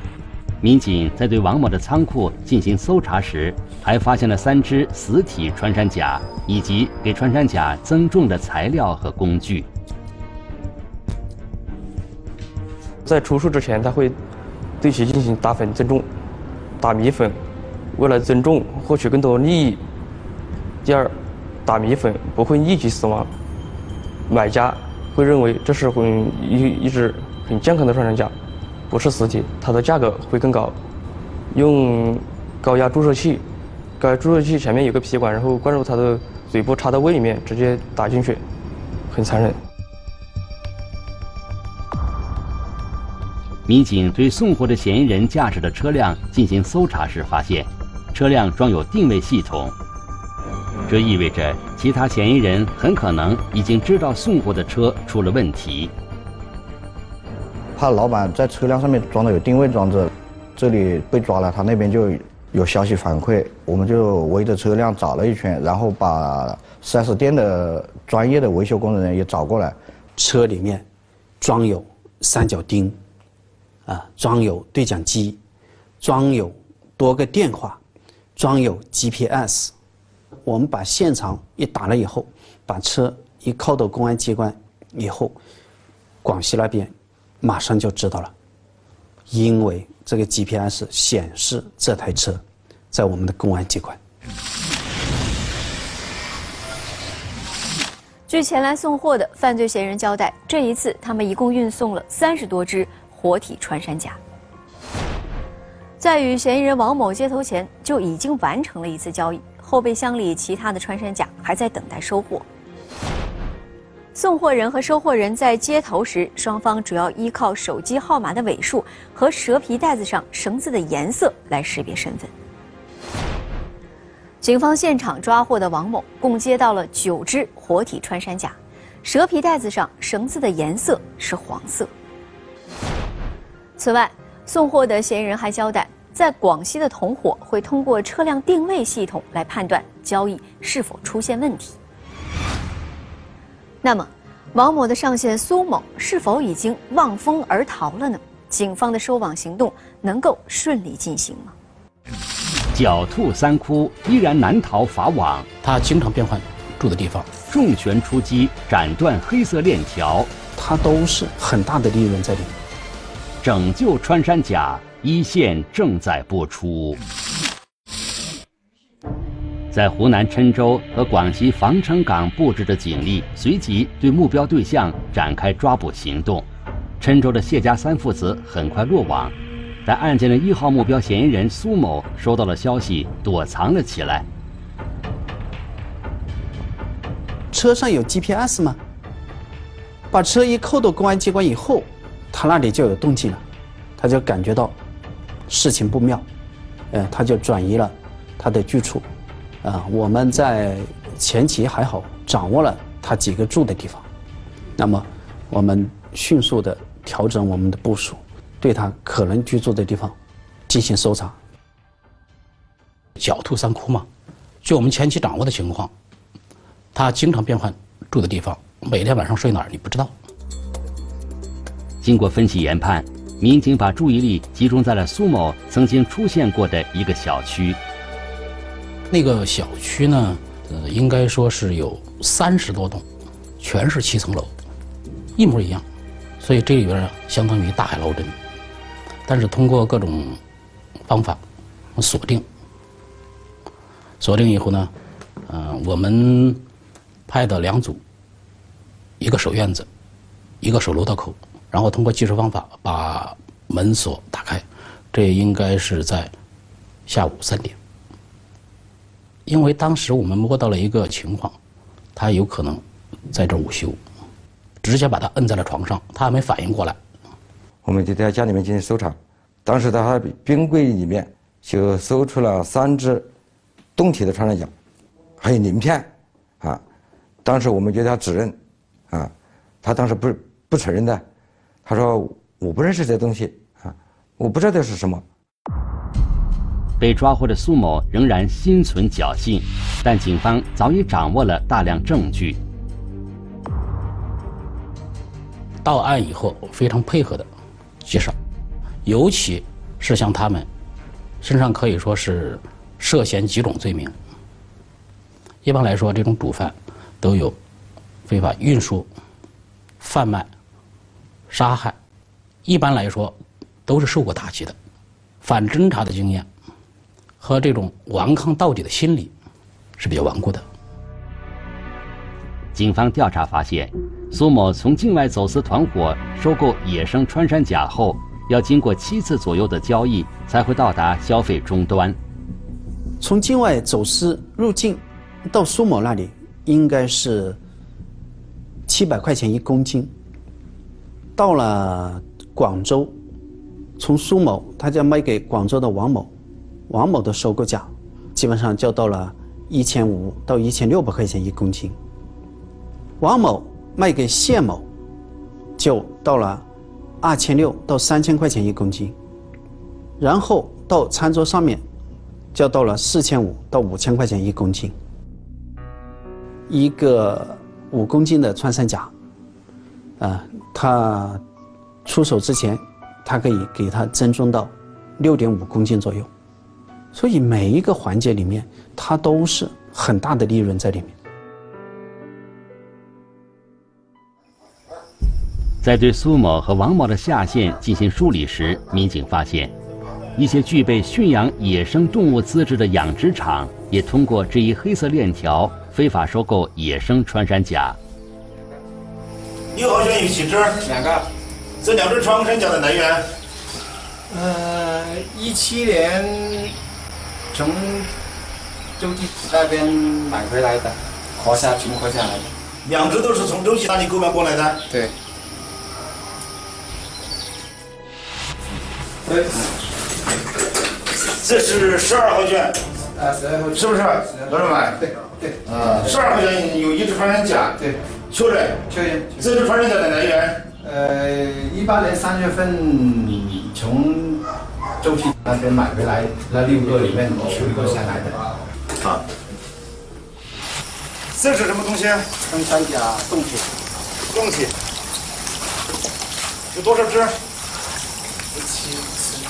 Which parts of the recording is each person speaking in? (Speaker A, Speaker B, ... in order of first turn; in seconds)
Speaker A: 0.6-9.7, 43.6-49.7, 50.9-55.9, 152.7-155.5, 157.5-160.3, 163.4-167.0, 169.7-176.5, 177.0-179.3, 179.8-184.2, 222.0-227.8, 287.0-292.6, 322.7-332.2, 385.8-389.7, 390.4-398.0
Speaker B: 13.0-14.2, 14.8-16.1, 16.8-17.4, 17.9-19.8, 20.8-23.3, 24.3-28.3, 28.9-30.8, 31.5-33.4, 34.0-38.4, 39.1-39.6
Speaker C: 57.8-69.8
Speaker D: 70.2-70.8, 71.4-73.0, 73.8-75.4, 76.0-77.8, 78.3-79.7, 80.4-85.4, 86.2-88.3, 89.3-94.0, 160.6-162.6, 187.5-188.8, 190.1-193.4, 194.0-194.8, 195.5-196.2, 196.9-199.1, 199.6-204.0, 204.8-210.2, 210.7-211.4, 333.2-337.6, 338.9-340.1, 341.3-343.1, 344.0-346.3, 346.9-351.9, 353.2-354.9, 355.8-356.6, 357.2-359.1, 360.2-361.8, 362.5-364.9, 366.7-369.1, 370.2-371.4, 372.0-376.3, 377.1-381.1
Speaker E: 98.3-104.2, 106.0-112.4, 114.1-122.3, 124.4-131.9, 133.8-141.8, 143.8-151.5
Speaker F: 155.6-157.3, 213.2-214.1, 214.6-215.9, 216.9-220.1, 229.1-233.0, 233.6-234.5, 235.3-235.8, 236.4-238.3, 239.2-240.4, 241.1-241.4, 241.9-242.4, 244.2-244.9, 245.4-246.6, 247.3-248.0, 249.2-249.9, 250.6-256.3, 257.1-257.8, 259.4-261.6, 262.1-264.0, 264.8-267.0, 295.8-297.5, 298.0-298.4, 299.0-300.7, 301.4-304.1, 305.6-307.6, 308.2-309.1, 310.0-310.5, 311.5-312.0, 312.6-314.8, 315.4-316.5, 317.4-319.3, 320.0-320.6
Speaker G: 267.8-273.3, 273.9-274.7, 275.4-276.1, 277.4-278.6, 279.8-281.2, 281.8-285.2
Speaker H: 399.7-400.9, 401.8-403.2, 412.8-414.8, 421.3-422.8, 423.7-425.0, 425.6-427.8, 428.3-430.7, 441.3-442.3, 444.3-444.7, 446.7-447.4
Speaker I: 400.8-401.2, 404.3-406.7, 407.5-408.1, 409.0-412.5, 419.3-419.5, 423.1-424.5, 428.9-429.4, 430.8-434.4, 435.0-438.4, 442.5-443.7